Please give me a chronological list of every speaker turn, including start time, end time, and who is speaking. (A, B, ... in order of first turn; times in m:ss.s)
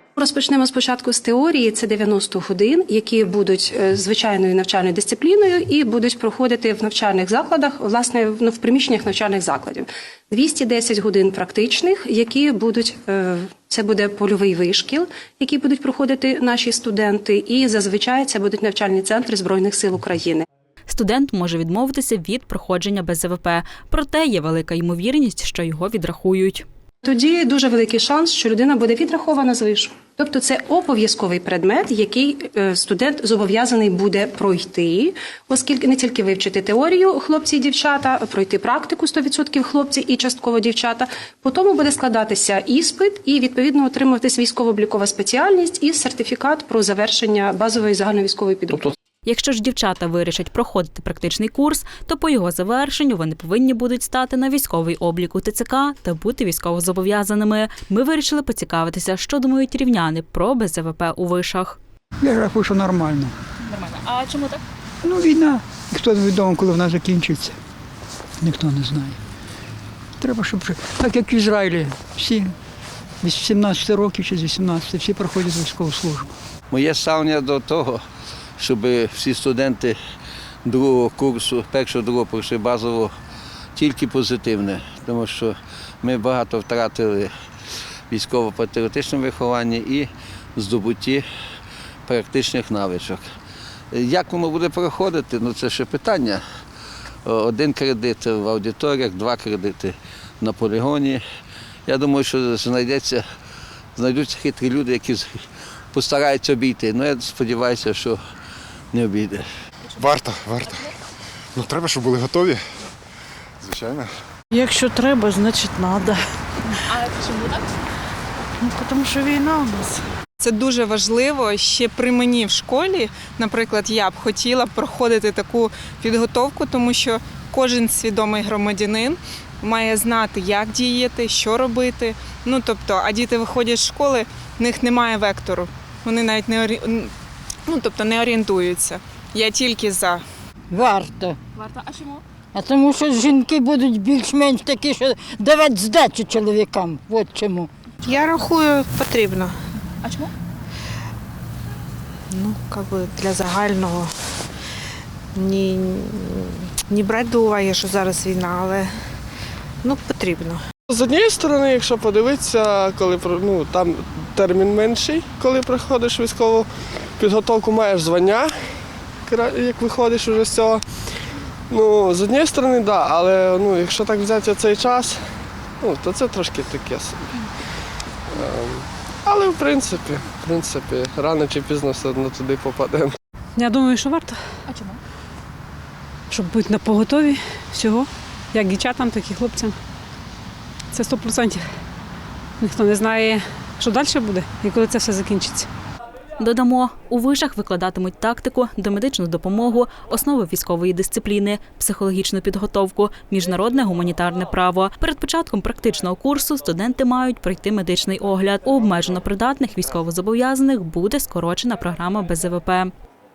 0:00.2-0:20.5 A
0:20.9-0:26.6 B
0:27.0-0:48.9 A
0:49.3-1:01.8 B
1:02.2-1:03.3 C
1:05.0-1:07.6 C
1:08.4-1:09.2 C
1:10.2-1:12.5 C
1:13.2-1:16.3 C
1:16.7-1:18.0 D
1:18.6-1:20.0 D
1:20.6-1:23.1 D
1:23.8-1:27.3 D
1:28.1-1:31.2 D
1:32.1-1:33.2 D
1:33.9-1:36.4 D
1:37.3-1:41.2 D
1:41.9-1:43.2 D
1:44.0-1:45.4 D
1:45.9-1:48.2 D
1:48.9-1:49.4 D
1:50.0-1:50.9 E
1:51.5-1:52.6 E
1:53.6-1:54.1 E
1:54.5-1:56.3 F
1:58.6-2:00.0 F
2:00.4-2:17.1 G
2:17.7-2:20.2 G
2:20.7-2:21.4 H
2:22.5-2:27.7 H
2:28.0-2:29.6 I
2:32.3-2:34.2 I
2:35.3-2:39.1 I
2:39.8-2:40.6 I
2:40.9-2:57.5 J
2:58.3-3:03.2 J
3:03.6-3:04.4 K
3:06.3-3:09.8 K
3:10.9-3:11.7 K
3:12.6-3:15.7 K
3:16.4-3:32.9 B